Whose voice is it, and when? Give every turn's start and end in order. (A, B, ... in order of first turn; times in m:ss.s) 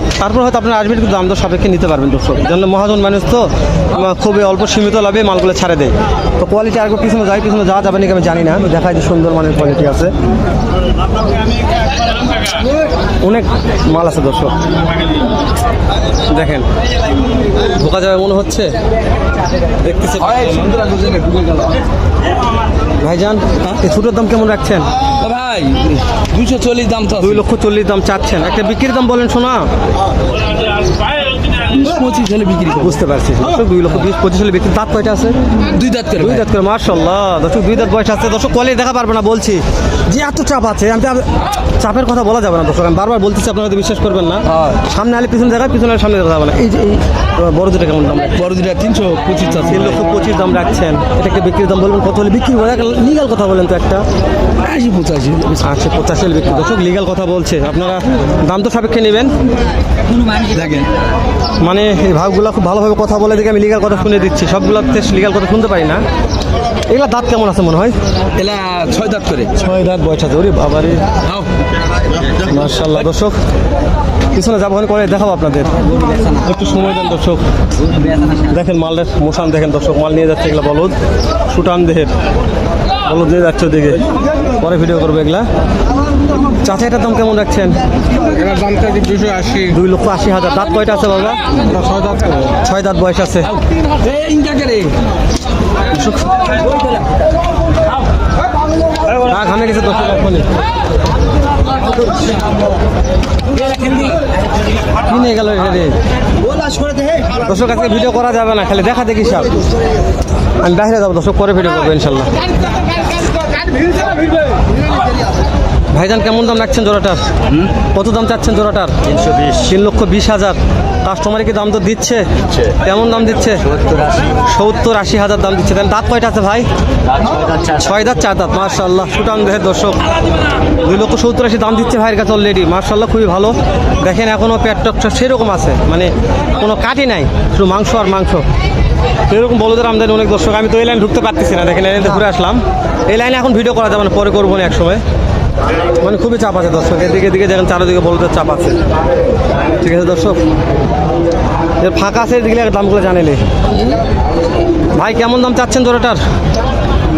0:00.2-0:10.1 A
0:13.2-0:14.5 A
0:16.2-0:16.6 A
0:17.6-0:18.8 A
0:19.8-0:20.4 A
0:20.2-0:21.8 B
0:23.0-0:24.9 A
0:25.2-0:27.4 B
0:27.2-0:29.7 A
0:31.5-0:33.0 B
0:32.8-0:35.3 A
0:35.7-0:36.4 B
0:36.2-0:48.4 A
0:44.5-0:44.8 B
0:48.4-0:49.9 B
0:49.7-0:54.0 A
0:54.6-0:55.7 B
0:55.6-0:59.3 A
1:00.1-1:00.9 B
1:01.6-1:06.0 A
1:06.9-1:07.9 A
1:08.3-1:09.5 B
1:09.6-1:11.0 A
1:12.4-1:13.4 A
1:14.3-1:17.4 A
1:18.2-1:20.9 A
1:21.4-1:22.1 A
1:23.0-1:24.0 A
1:24.6-1:25.5 A
1:26.6-1:27.8 A
1:28.4-1:29.5 B
1:29.5-1:31.5 A
1:31.7-1:32.3 B
1:32.5-1:33.5 A
1:33.9-1:35.0 B
1:35.9-1:36.3 A
1:39.1-1:40.5 A
1:43.7-1:44.1 B
1:45.0-1:46.0 A
1:47.3-1:49.6 A
1:50.6-1:52.4 A
1:55.9-1:57.2 A
1:57.8-1:58.9 A
1:59.5-2:06.7 A
2:07.2-2:07.8 B
2:07.7-2:10.0 A
2:10.8-2:18.4 A
2:19.3-2:25.0 A
2:26.0-2:28.8 A
2:29.8-2:30.4 A
2:31.8-2:33.4 A
2:34.9-2:36.2 A